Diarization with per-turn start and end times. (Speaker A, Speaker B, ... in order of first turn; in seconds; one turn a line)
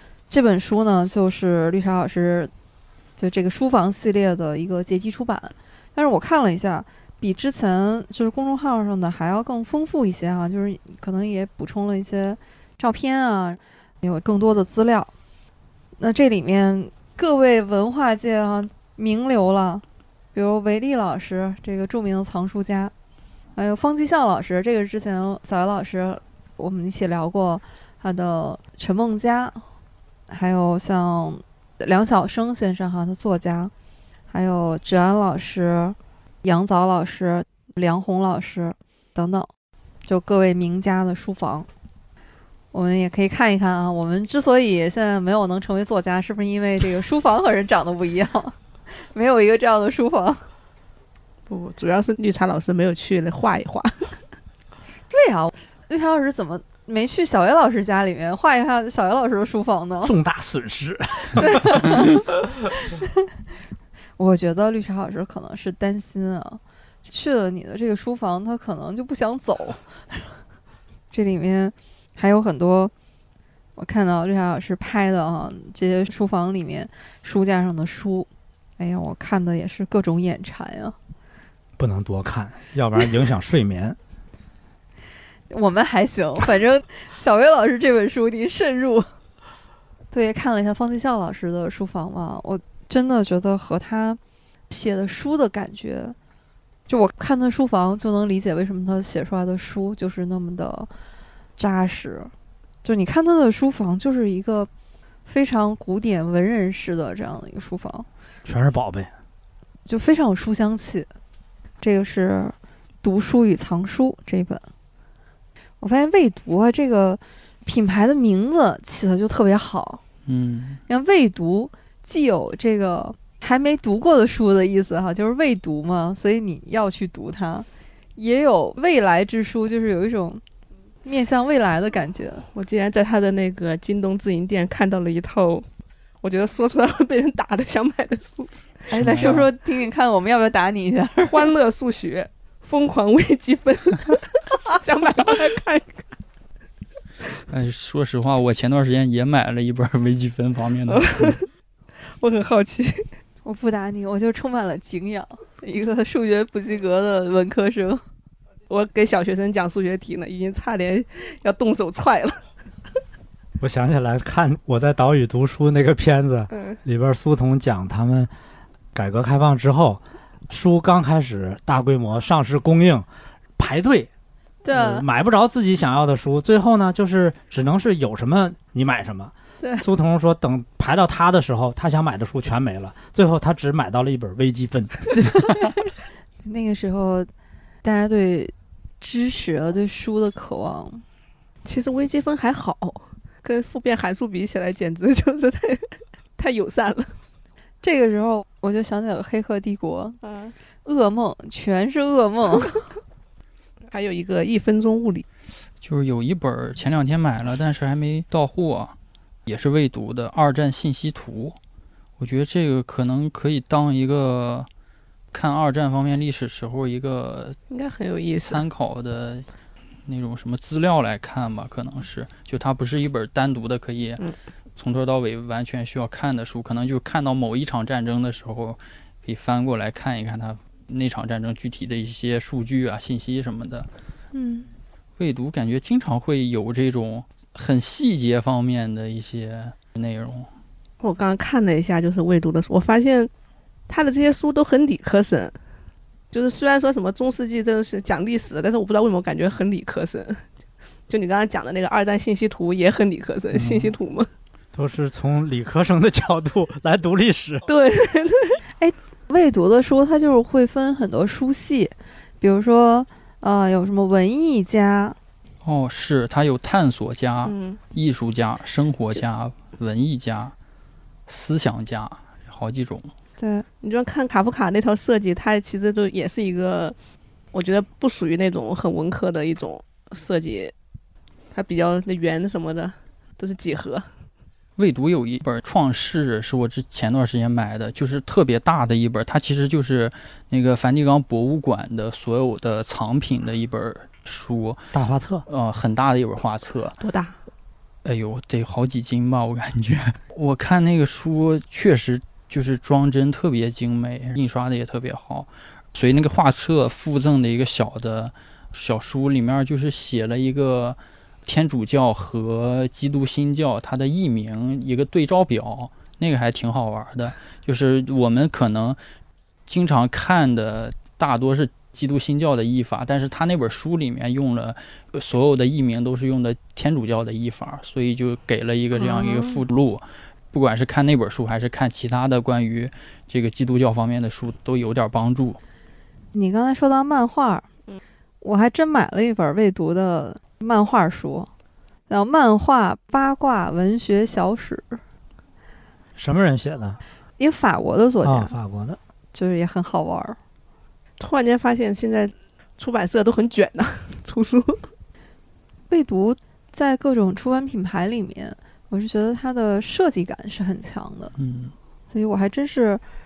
Speaker A: 0.3-2.5
Speaker A: 3.2-15.1
Speaker A: 16.0-22.9
Speaker A: 23.6-29.6
Speaker A: 30.3-33.7
Speaker A: 34.3-39.5
Speaker A: 40.0-41.7
Speaker A: 42.7-50.4
Speaker B: 51.5-54.2
Speaker A: 55.1-60.1
Speaker C: 60.0-62.2
Speaker A: 61.3-62.2
Speaker A: 64.2-70.3
Speaker A: 71.1-72.9
Speaker A: 73.8-78.3
Speaker A: 78.8-81.0
Speaker C: 81.8-84.0
Speaker A: 85.5-89.1
Speaker A: 90.1-94.2
Speaker A: 94.7-96.2
Speaker A: 96.9-100.9
Speaker A: 101.6-102.3
Speaker A: 102.8-104.7
Speaker A: 105.2-108.1
Speaker C: 108.4-109.1
Speaker A: 109.8-111.1
Speaker A: 111.8-114.6
Speaker A: 115.8-120.0
Speaker D: 120.3-120.8
Speaker A: 120.9-130.4
Speaker A: 131.0-132.5
Speaker B: 132.5-135.7
Speaker B: 136.2-139.4
Speaker A: 138.9-141.5
Speaker D: 138.9-139.5
Speaker B: 141.2-146.1
Speaker D: 147.5-151.4
Speaker B: 150.9-151.4
Speaker B: 152.0-153.1
Speaker A: 153.4-158.0
Speaker B: 158.7-162.4
Speaker C: 163.6-168.3
Speaker B: 166.5-166.8
Speaker C: 168.9-173.1
Speaker C: 173.6-174.1
Speaker A: 174.6-175.0
Speaker C: 174.7-185.7
Speaker A: 179.6-179.8
Speaker A: 186.4-187.3
Speaker A: 187.8-191.0
Speaker B: 191.6-197.2
Speaker A: 197.8-200.2
Speaker B: 200.2-200.6
Speaker A: 200.8-202.8
Speaker B: 203.9-205.2
Speaker D: 205.8-211.6
Speaker D: 212.2-214.7
Speaker D: 215.3-217.6
Speaker B: 217.7-218.6
Speaker D: 218.4-219.4
Speaker D: 220.1-224.2
Speaker D: 224.8-233.9
Speaker A: 234.3-234.7
Speaker D: 235.2-240.5
Speaker B: 241.0-243.3
Speaker B: 243.9-245.6
Speaker B: 246.3-250.4
Speaker B: 251.1-254.3
Speaker C: 253.5-253.9
Speaker C: 254.7-257.7
Speaker B: 257.7-258.6
Speaker A: 258.8-265.2
Speaker D: 265.6-270.5
Speaker B: 267.4-267.8
Speaker D: 271.3-273.1
Speaker A: 273.4-273.6
Speaker B: 273.8-276.9
Speaker B: 277.5-280.7
Speaker B: 281.5-284.1
Speaker D: 284.8-294.8
Speaker C: 294.9-295.4
Speaker D: 295.5-297.0
Speaker B: 297.0-297.4
Speaker D: 298.0-319.0
Speaker D: 319.6-335.6
Speaker B: 328.9-329.6
Speaker A: 336.3-337.6
Speaker A: 338.4-341.5
Speaker A: 342.1-345.0
Speaker C: 346.1-347.0
Speaker A: 347.4-348.5
Speaker C: 348.2-349.0
Speaker A: 349.3-350.4
Speaker B: 351.2-354.9
Speaker A: 355.9-361.3
Speaker D: 361.4-361.7
Speaker A: 362.1-363.0